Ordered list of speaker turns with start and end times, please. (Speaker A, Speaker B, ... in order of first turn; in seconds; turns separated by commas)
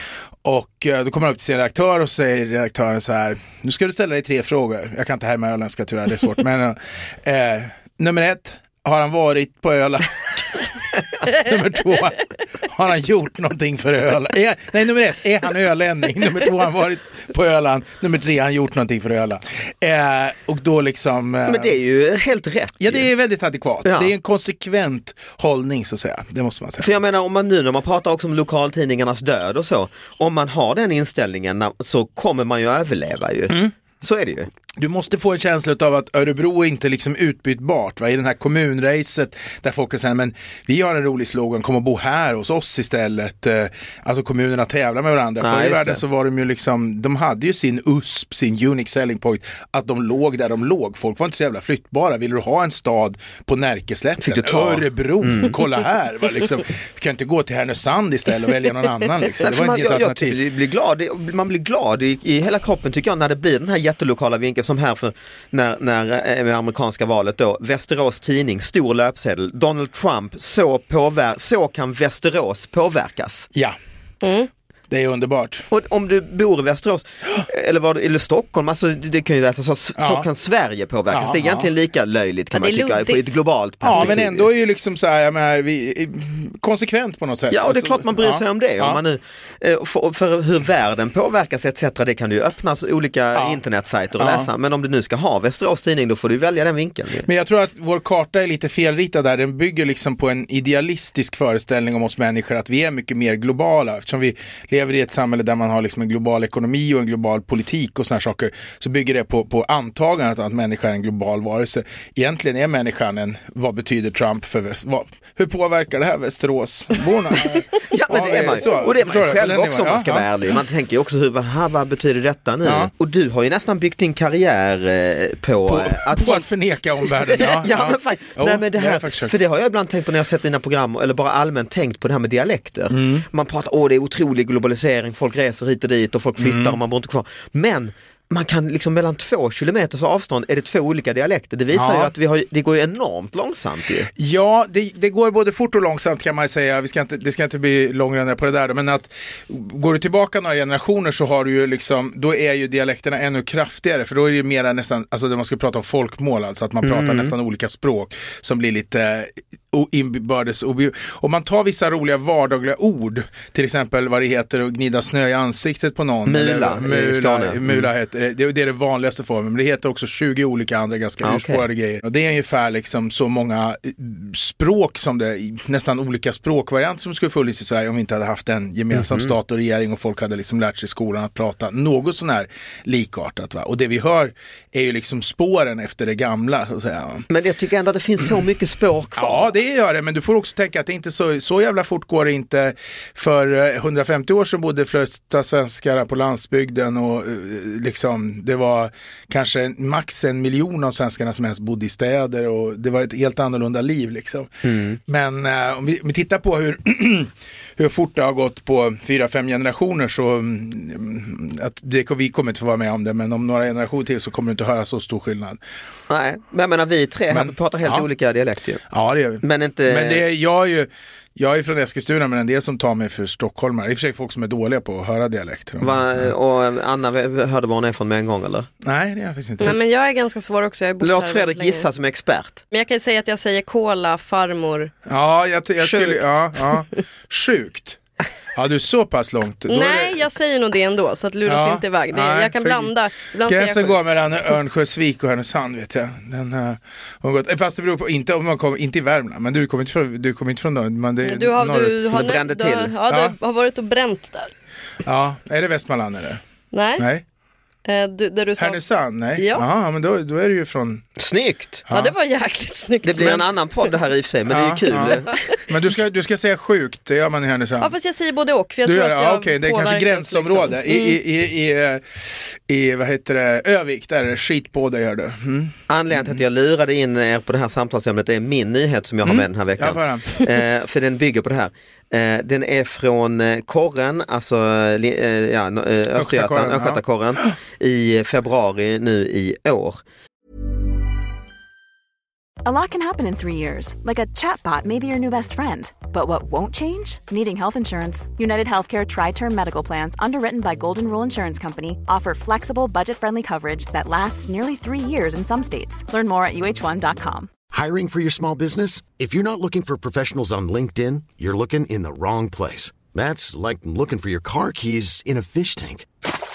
Speaker A: 0.4-21.7, Speaker B: 21.5-23.1, Speaker A: 22.8-26.9, Speaker B: 23.8-24.1, Speaker B: 26.8-34.5, Speaker A: 34.8-60.4, Speaker B: 45.4-46.0, Speaker B: 54.2-55.6, Speaker B: 59.4-73.5, Speaker C: 74.2-74.5, Speaker A: 74.9-75.7, Speaker B: 75.7-84.5, Speaker A: 80.0-80.2, Speaker A: 81.1-81.7, Speaker C: 82.5-83.3, Speaker A: 83.8-89.0, Speaker B: 87.5-97.3, Speaker A: 94.2-94.5, Speaker A: 97.2-120.2, Speaker B: 117.9-126.5, Speaker A: 122.6-122.9, Speaker A: 125.7-129.3, Speaker B: 127.3-144.1, Speaker A: 132.9-133.2, Speaker A: 136.4-136.8, Speaker A: 141.7-142.1, Speaker A: 144.2-187.2, Speaker B: 156.8-157.3, Speaker B: 166.2-167.9, Speaker B: 171.2-171.6, Speaker B: 178.9-179.3, Speaker B: 187.3-189.5, Speaker A: 189.2-204.5, Speaker B: 204.6-205.0, Speaker A: 205.1-215.6, Speaker B: 216.1-218.8, Speaker A: 217.3-218.1, Speaker A: 218.9-226.3, Speaker B: 219.4-220.2, Speaker B: 225.8-228.7, Speaker A: 228.8-229.8, Speaker C: 229.6-231.9, Speaker B: 231.0-232.6, Speaker C: 232.7-234.9, Speaker A: 235.1-238.0, Speaker C: 235.8-236.9, Speaker A: 238.5-240.3, Speaker C: 239.7-244.1, Speaker A: 241.4-242.9, Speaker A: 243.4-252.0, Speaker C: 251.2-254.5, Speaker B: 252.1-252.9, Speaker A: 253.1-253.3, Speaker A: 255.0-256.4, Speaker C: 256.7-257.1, Speaker A: 257.0-257.2, Speaker C: 257.8-258.8, Speaker A: 258.6-261.0, Speaker C: 259.3-259.6, Speaker B: 261.2-261.8, Speaker A: 261.9-262.1, Speaker C: 261.9-263.9, Speaker B: 263.0-265.4, Speaker A: 264.5-267.9, Speaker C: 267.8-271.2, Speaker A: 268.8-276.4, Speaker B: 275.9-290.0, Speaker A: 279.2-280.4, Speaker A: 286.1-287.5, Speaker D: 292.6-307.5, Speaker E: 307.7-316.1